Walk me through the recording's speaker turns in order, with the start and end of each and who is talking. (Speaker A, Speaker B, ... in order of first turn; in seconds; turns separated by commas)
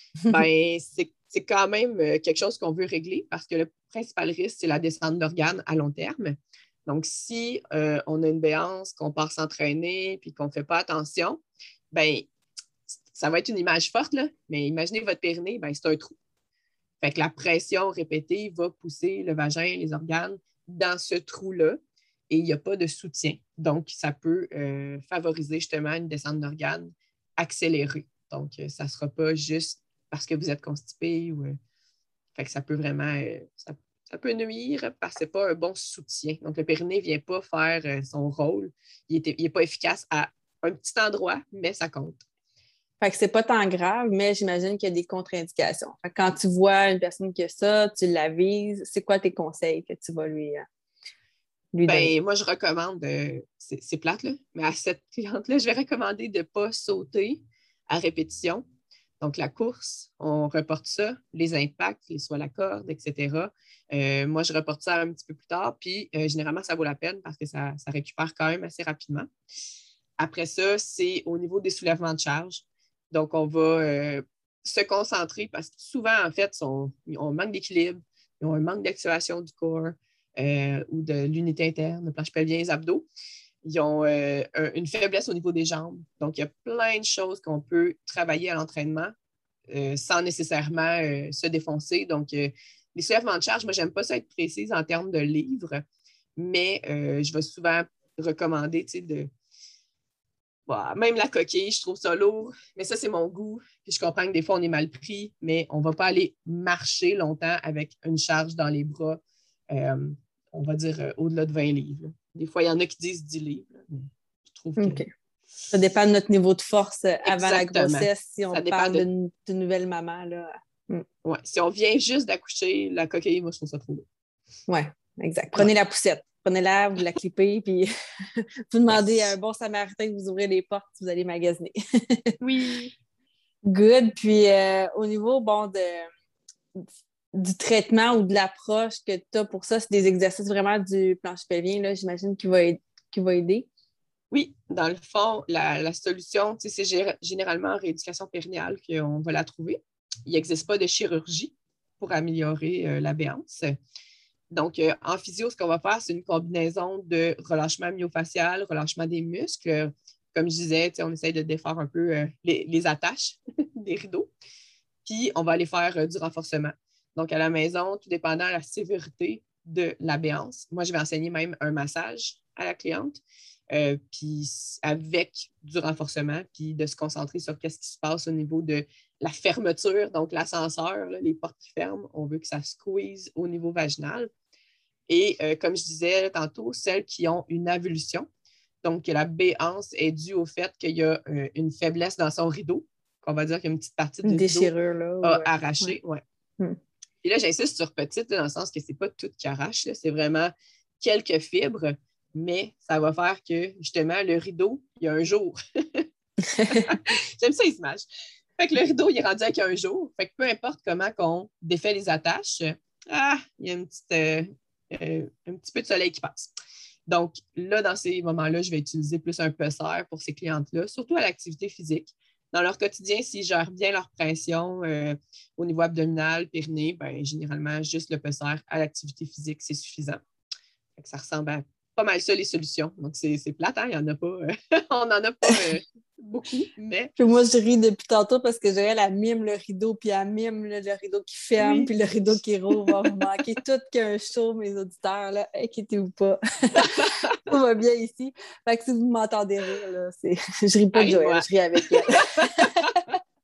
Speaker A: 0.3-11.4, Speaker A: 11.9-12.3, Speaker A: 12.9-16.1, Speaker A: 17.0-21.8, Speaker A: 22.3-31.5, Speaker A: 32.3-42.2, Speaker B: 43.0-50.6, Speaker B: 51.7-52.1, Speaker A: 51.8-58.6, Speaker A: 59.2-69.3, Speaker A: 70.2-83.1, Speaker A: 83.6-89.1, Speaker A: 89.7-95.8, Speaker A: 96.3-99.3, Speaker A: 100.7-109.2, Speaker A: 109.7-115.0, Speaker B: 114.8-115.1, Speaker B: 115.7-121.0, Speaker A: 117.2-119.0, Speaker A: 121.2-124.0, Speaker B: 124.7-127.9, Speaker B: 128.7-131.8, Speaker A: 128.9-129.3, Speaker A: 132.4-132.9, Speaker B: 133.6-136.1, Speaker B: 137.3-143.7, Speaker A: 144.3-153.8, Speaker A: 154.5-164.3, Speaker A: 165.1-173.2, Speaker A: 173.7-184.3, Speaker A: 185.1-188.2, Speaker A: 188.8-196.2, Speaker B: 194.2-195.9, Speaker A: 197.2-206.0, Speaker A: 206.6-208.0, Speaker A: 208.6-216.5, Speaker A: 217.1-230.2, Speaker A: 231.0-237.1, Speaker B: 237.2-253.1, Speaker A: 241.6-242.9, Speaker A: 246.8-247.3, Speaker A: 250.9-252.2